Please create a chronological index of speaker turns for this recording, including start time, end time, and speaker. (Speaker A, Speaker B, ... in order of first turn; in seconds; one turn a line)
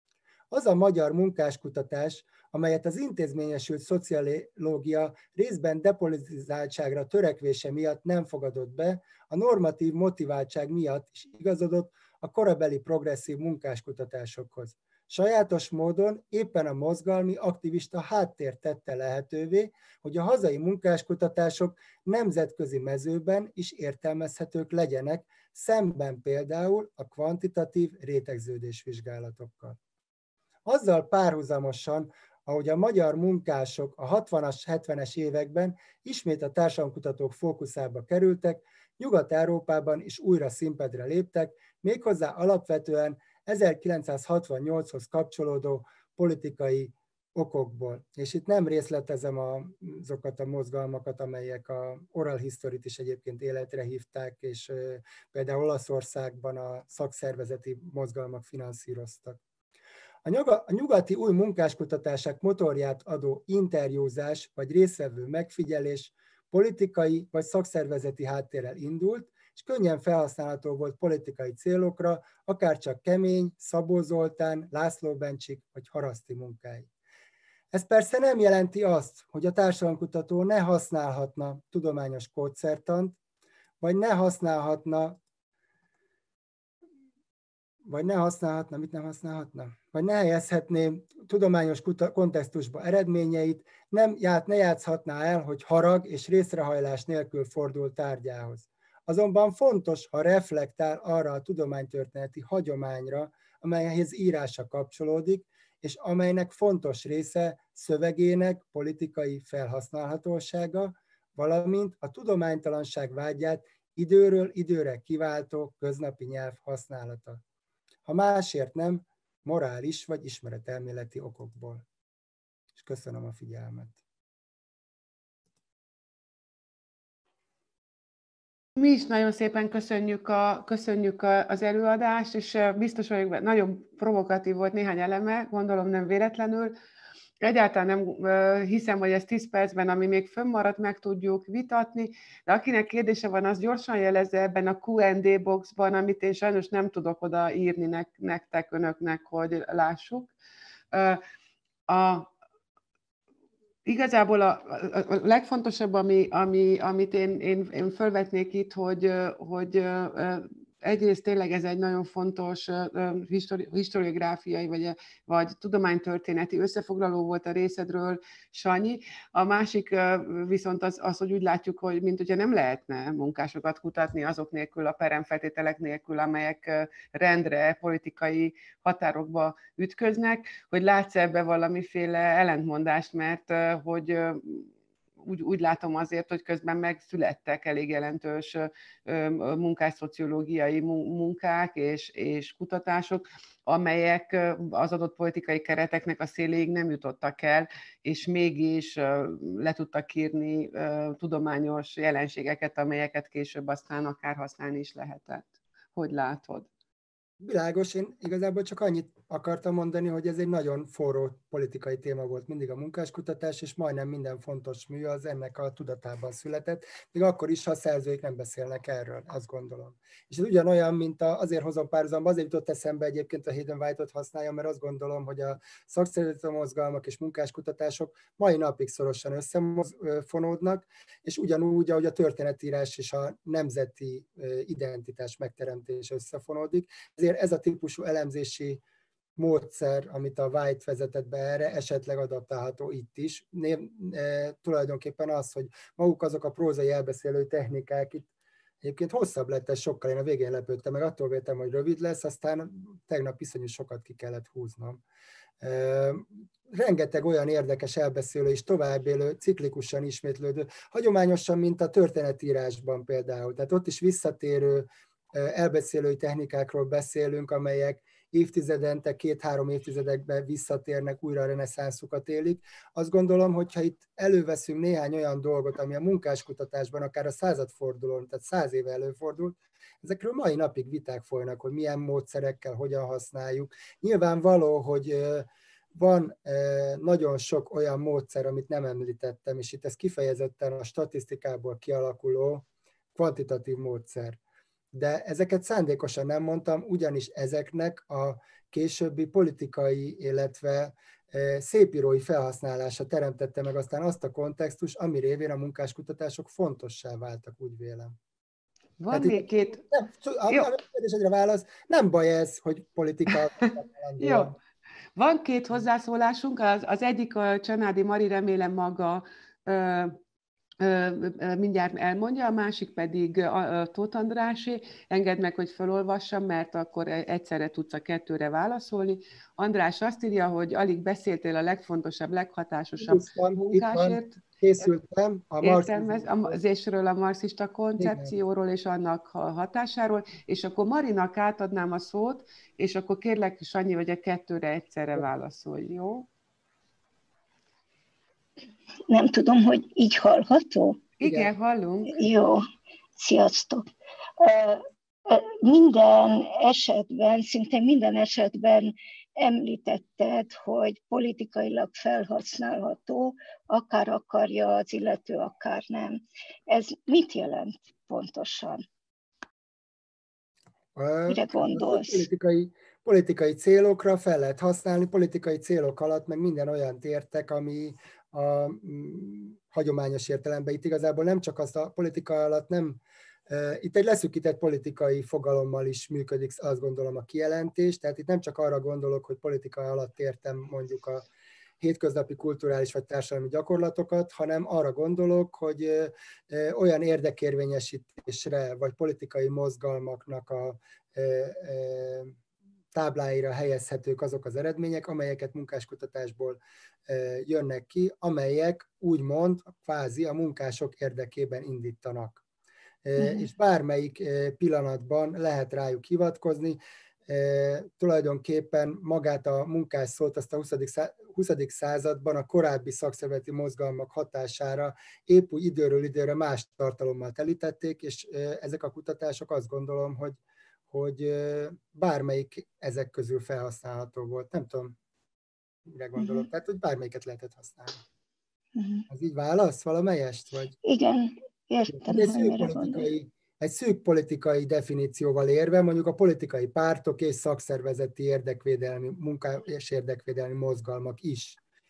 Speaker A: 0.5-29.8
Speaker A: 30.6-59.4
Speaker A: 60.2-76.9
Speaker A: 77.7-83.2
Speaker A: 83.8-85.2
Speaker A: 87.8-117.4
Speaker A: 118.0-121.8
Speaker A: 122.7-124.0
Speaker B: 128.8-136.7
Speaker B: 137.4-150.3
Speaker B: 150.9-151.2
Speaker B: 151.9-152.3
Speaker B: 153.8-184.7
Speaker B: 185.2-206.7
Speaker A: 207.4-238.8
Speaker A: 239.4-248.3
Speaker A: 248.8-255.0
Speaker A: 255.6-294.4
Speaker A: 294.9-308.1
Speaker B: 309.0-309.8
Speaker A: 309.1-314.6
Speaker B: 314.2-314.6
Speaker B: 315.1-320.2
Speaker B: 320.8-334.4
Speaker A: 333.0-336.6
Speaker B: 335.6-346.3
Speaker A: 338.0-338.4
Speaker C: 349.1-351.1
Speaker B: 351.2-352.1
Speaker C: 352.1-352.6
Speaker C: 353.2-353.8
Speaker C: 354.4-368.8
Speaker A: 370.9-391.2
Speaker C: 371.3-372.2
Speaker A: 391.8-402.4
Speaker A: 402.9-412.4
Speaker A: 413.0-434.9
Speaker C: 413.2-413.5
Speaker A: 435.9-438.0
Speaker C: 436.2-436.4
Speaker C: 438.8-439.0
Speaker A: 439.1-440.7
Speaker C: 440.8-443.1
Speaker A: 441.9-451.6